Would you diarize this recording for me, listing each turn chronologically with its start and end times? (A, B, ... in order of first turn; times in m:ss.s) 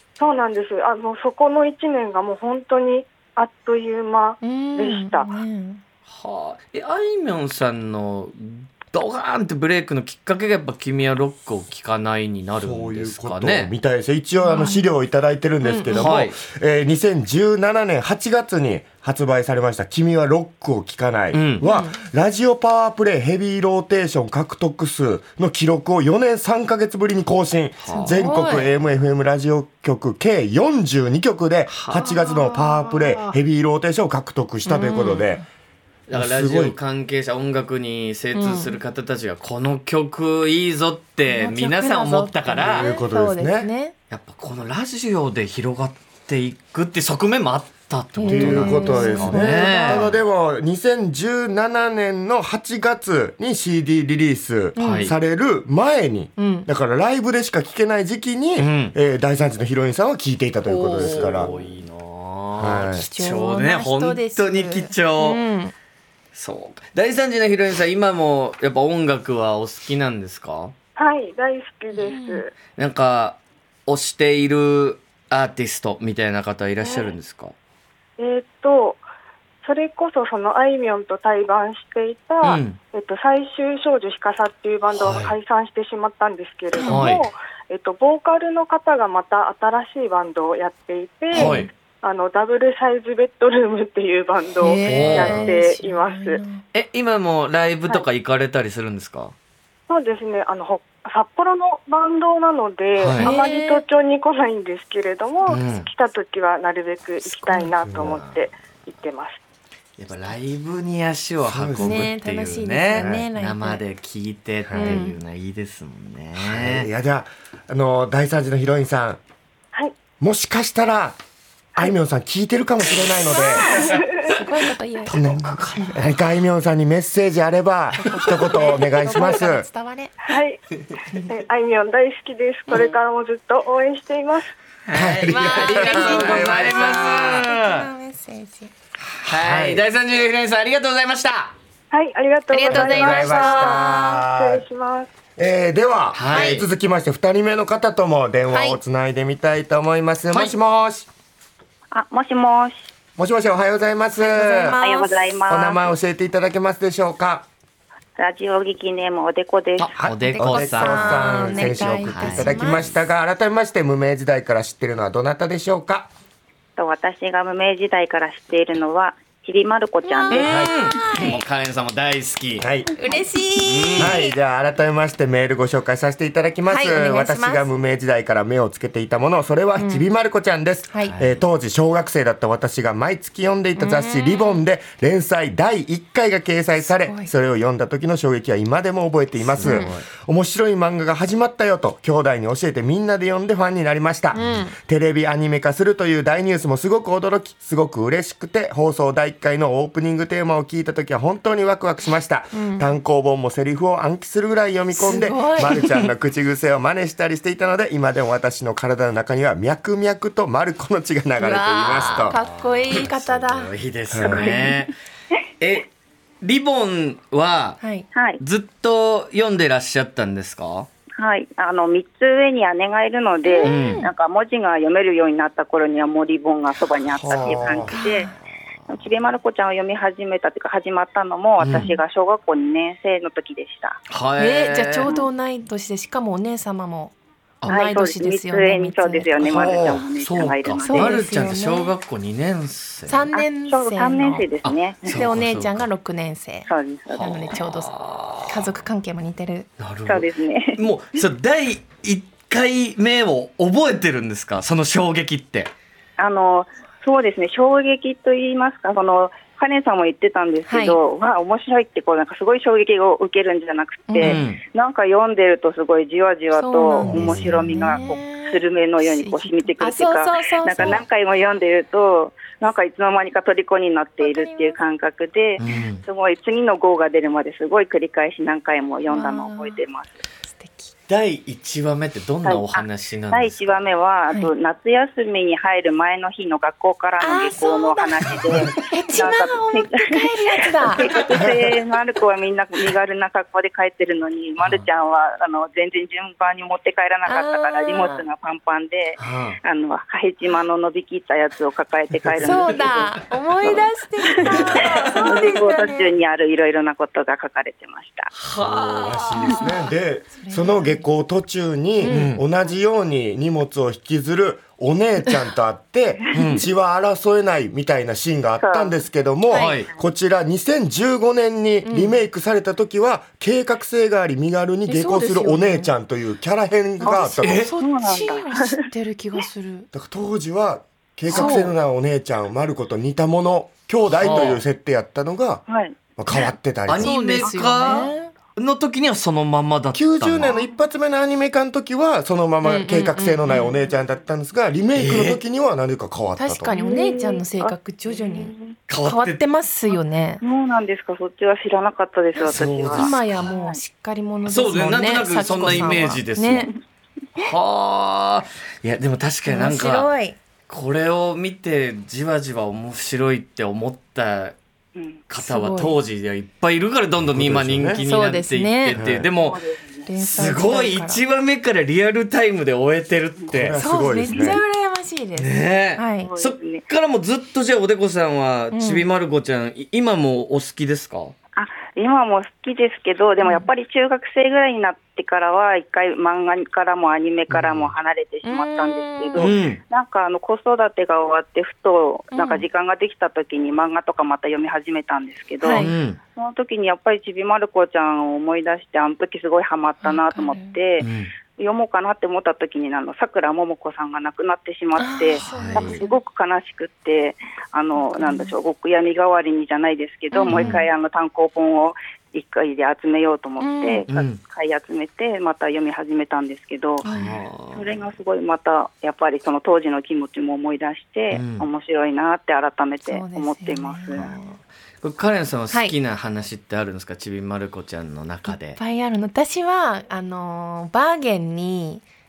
0:00.2-0:05.3 A
0:04.4-0:05.8 B
0:06.1-0:13.7 C
0:12.5-0:35.4 D
0:14.4-0:14.9 B
0:15.6-0:15.9 B
0:15.9-0:16.4 C
0:21.3-0:21.6 C
0:21.6-0:22.0 B
0:27.8-0:28.2 C
0:27.8-0:28.7 B
0:31.7-0:32.4 C
0:32.2-0:33.3 B
0:34.6-0:35.4 B
0:36.1-0:42.9 C
0:36.1-0:36.8 D
0:38.3-0:38.8 B
0:41.3-0:43.9 B
0:42.5-0:43.7 D
0:44.1-0:50.1 C
0:48.2-0:50.1 B
0:48.2-1:01.5 D
0:54.8-0:55.1 B
0:54.8-0:55.1 C
0:56.4-0:56.7 B
0:58.6-0:59.0 C
1:00.6-1:05.4 C
1:02.6-1:03.1 D
1:02.8-1:05.7 B
1:06.3-1:10.7 C
1:11.0-1:12.5 A
1:11.9-1:12.4 B
1:12.7-1:17.5 C
1:16.8-1:17.1 A
1:18.2-1:19.0 A
1:19.6-1:36.4 A
1:22.4-1:22.8 C
1:24.9-1:25.3 C
1:26.7-1:27.2 B
1:26.8-1:27.3 C
1:31.3-1:31.7 C
1:31.3-1:31.6 B
1:34.6-1:36.6 B
1:34.8-1:35.5 C
1:36.7-1:39.3 C
1:39.9-1:49.4 A
1:43.0-1:43.3 C
1:43.2-1:43.8 B
1:45.4-1:45.9 C
1:47.2-1:47.7 B
1:47.8-1:48.1 D
1:47.9-1:48.4 C
1:50.0-1:56.9 C
1:51.4-1:52.1 D
1:51.8-1:53.8 B
1:52.9-1:53.2 D
1:54.7-1:55.0 D
1:54.7-1:55.2 B
1:56.4-1:59.2 D
2:00.2-2:01.2 D
2:01.8-2:04.0 D
2:03.3-2:05.2 B
2:03.7-2:04.2 A
2:05.0-2:06.1 C
2:05.1-2:09.6 D
2:07.9-2:10.2 B
2:10.3-2:10.6 A
2:11.2-2:14.5 A
2:14.9-2:17.9 C
2:14.9-2:17.4 D
2:15.3-2:18.7 B
2:19.2-2:21.5 C
2:19.3-2:19.8 D
2:21.9-2:25.1 A
2:22.5-2:24.2 B
2:22.7-2:24.6 D
2:25.4-2:31.1 D
2:26.1-2:26.7 C
2:26.3-2:26.6 B
2:28.5-2:28.8 B
2:31.9-2:32.9 E
2:33.2-2:34.8 D
2:34.1-2:35.4 B
2:34.8-2:35.9 E
2:35.5-2:37.4 D
2:38.2-2:39.9 E
2:39.8-2:42.8 C
2:40.0-2:46.1 D
2:40.2-2:43.0 B
2:46.8-2:50.4 E
2:50.0-2:51.4 B
2:50.3-2:52.6 C
2:50.4-2:50.7 D
2:52.6-2:52.9 D
2:53.0-2:54.3 B
2:53.6-2:54.2 C
2:54.0-3:32.4 D
2:56.6-2:57.7 B
2:59.8-3:00.1 B
3:01.0-3:01.4 C
3:03.8-3:04.6 B
3:06.8-3:07.3 B
3:09.4-3:10.0 C
3:09.6-3:09.9 B
3:14.3-3:14.7 B
3:22.5-3:22.9 B
3:24.9-3:25.8 B
3:25.6-3:26.1 C
3:31.4-3:33.7 B
3:32.2-3:34.9 C
3:34.1-3:34.5 D
3:34.2-3:34.9 E
3:35.6-3:35.9 C
3:36.4-3:37.8 C
3:37.8-3:38.1 B
3:38.1-3:38.4 E
3:38.4-3:40.9 C
3:41.2-3:48.3 E
3:43.4-3:44.1 B
3:43.6-3:44.1 C
3:47.0-3:48.0 D
3:47.9-3:48.3 B
3:48.9-3:54.0 E
3:51.6-3:51.9 C
3:54.1-3:55.2 C
3:54.4-3:59.9 B
3:57.7-4:01.2 E
3:59.4-4:03.3 C
4:00.8-4:02.0 B
4:03.1-4:04.5 B
4:03.3-4:05.3 E
4:04.6-4:05.9 C
4:05.0-4:09.7 B
4:06.6-4:07.4 E
4:07.1-4:08.8 C
4:09.8-4:15.7 C
4:10.0-4:10.8 E
4:16.2-4:40.2 E
4:20.7-4:21.0 B
4:24.1-4:24.4 B
4:24.2-4:24.6 C
4:26.5-4:31.0 B
4:27.0-4:27.8 D
4:34.2-4:34.8 B
4:35.6-4:36.0 C
4:39.1-4:39.8 B
4:40.4-4:40.9 B
4:41.1-4:43.8 C
4:42.4-5:03.8 E
4:47.2-4:51.2 B
4:57.2-4:58.2 B
4:59.2-4:59.6 C
5:02.4-5:06.1 B
5:02.4-5:02.8 C
5:04.4-5:08.3 E
5:04.4-5:04.8 D
5:04.4-5:05.3 C
5:08.4-5:09.6 C
5:08.6-5:27.7 D
5:09.4-5:11.0 B
5:12.0-5:12.3 B
5:12.0-5:12.4 C
5:16.3-5:16.7 C
5:18.6-5:19.0 E
5:19.5-5:19.8 B
5:19.5-5:19.9 C
5:21.8-5:22.2 B
5:24.9-5:25.9 B
5:27.0-5:29.9 B
5:27.0-5:28.8 E
5:27.4-5:27.7 C
5:29.9-5:37.4 D
5:31.3-5:31.7 B
5:34.1-5:34.6 C
5:35.7-5:36.0 E
5:36.8-5:40.6 C
5:37.0-5:38.3 B
5:39.9-5:46.7 D
5:42.6-5:43.7 B
5:44.9-5:45.4 C
5:46.4-5:50.4 B
5:46.7-5:48.8 E
5:48.9-5:49.4 C
5:49.9-5:53.8 E
5:52.4-5:53.5 C
5:52.4-5:56.7 B
5:54.4-5:56.7 C
5:57.3-6:00.1 C
5:59.5-6:00.4 B
6:00.7-6:04.6 C
6:04.9-6:05.2 E
6:05.3-6:13.8 C
6:05.4-6:06.0 B
6:07.3-6:08.0 D
6:08.0-6:09.0 B
6:09.0-6:09.3 D
6:09.4-6:10.1 E
6:10.0-6:11.2 B
6:13.5-6:14.6 D
6:13.8-6:16.3 B
6:14.3-6:14.6 E
6:15.4-6:21.3 C
6:16.2-6:16.8 E
6:18.7-6:19.1 B
6:21.5-6:57.1 E
6:23.4-6:23.7 B
6:27.5-6:27.9 C
6:28.4-6:29.5 B
6:29.3-6:29.8 C
6:32.3-6:32.7 B
6:35.6-6:35.9 B
6:35.7-6:36.2 C
6:40.0-6:40.8 B
6:41.0-6:41.3 C
6:45.0-6:46.2 B
6:45.4-6:46.0 C
6:48.0-6:48.5 B
6:50.3-6:50.8 B
6:50.5-6:50.9 C
6:53.6-6:54.0 B
6:54.1-6:54.4 C
6:57.0-6:57.4 B
6:57.0-6:58.1 C
6:57.7-7:04.2 E
7:01.3-7:01.7 C
7:03.0-7:04.6 B
7:04.1-7:04.5 C
7:05.0-7:08.8 C
7:08.5-7:12.0 B